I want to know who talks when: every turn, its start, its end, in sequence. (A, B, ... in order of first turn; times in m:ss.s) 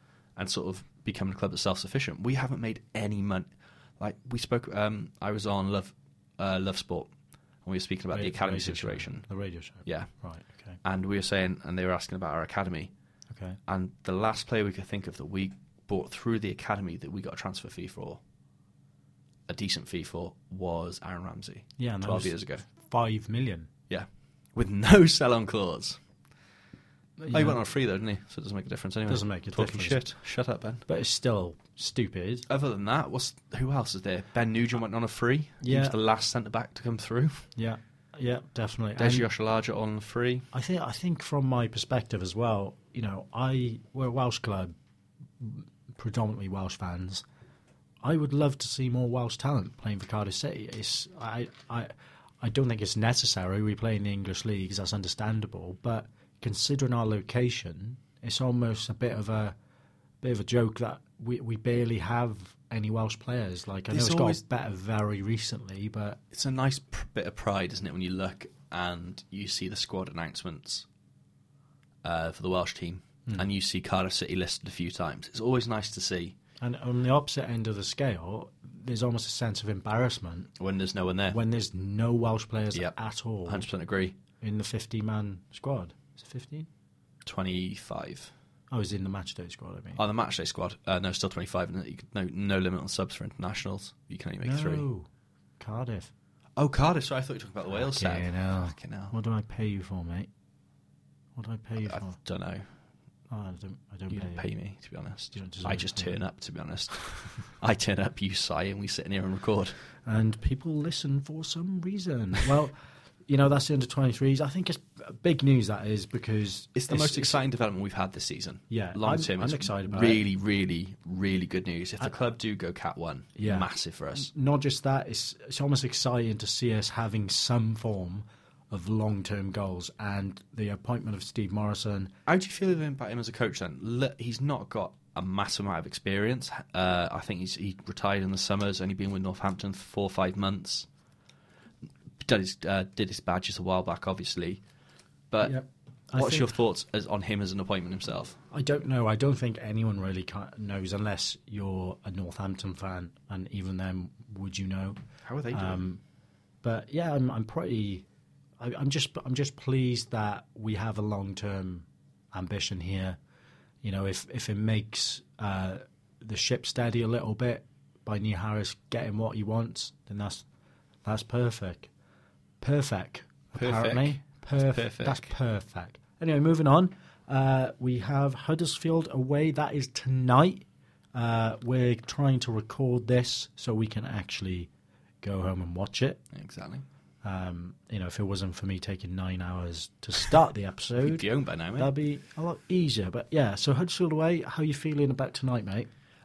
0:00.4-0:07.1 A
0:07.6-0:09.3 A
0:08.1-0:10.8 B
0:09.8-0:10.1 A
0:10.8-0:12.9 A
0:13.3-0:13.6 B
0:13.7-0:18.2 A
0:19.5-0:22.6 A
0:21.8-0:23.7 B
0:23.9-0:26.0 A
0:27.2-0:27.6 B
0:27.3-0:30.8 A
0:29.1-0:30.0 B
0:30.9-0:32.4 B
0:32.5-0:37.5 A
0:35.6-0:36.0 B
0:37.6-0:39.3 B
0:39.0-0:40.5 A
0:40.5-0:44.7 B
0:45.4-0:47.2 B
0:48.0-0:59.5 B
1:00.2-1:06.2 B
1:03.9-1:04.4 A
1:06.3-1:10.8 A
1:12.0-1:16.4 A
1:16.6-1:20.5 B
1:20.6-1:21.4 A
1:21.3-1:23.7 B
1:23.4-1:24.2 A
1:24.4-1:26.7 B
1:27.2-1:28.3 A
1:28.7-1:30.0 B
1:30.0-1:34.9 A
1:34.4-1:35.1 B
1:35.6-1:36.1 B
1:36.6-1:39.1 A
1:37.8-1:40.3 B
1:41.4-1:42.2 B
1:41.8-1:42.6 A
1:43.3-1:44.4 B
1:44.1-1:49.8 A
1:45.3-1:46.2 B
1:50.0-1:52.8 B
1:53.3-1:57.4 B
1:56.7-2:04.3 A
1:58.7-2:00.2 B
2:03.4-2:12.1 B
2:12.2-2:20.9 A
2:22.2-2:24.6 A
2:25.3-2:25.6 A
2:25.4-2:26.5 B
2:26.1-2:28.4 A
2:28.5-2:35.0 B
2:35.2-2:35.8 A
2:35.5-2:36.0 B
2:36.6-2:38.0 B
2:38.6-2:43.2 B
2:43.8-2:50.4 B
2:51.0-2:51.9 B
2:52.6-3:04.7 B
2:53.5-2:55.3 A
3:05.2-3:06.2 B
3:06.3-3:06.8 A
3:07.2-3:15.9 B
3:11.0-3:11.9 A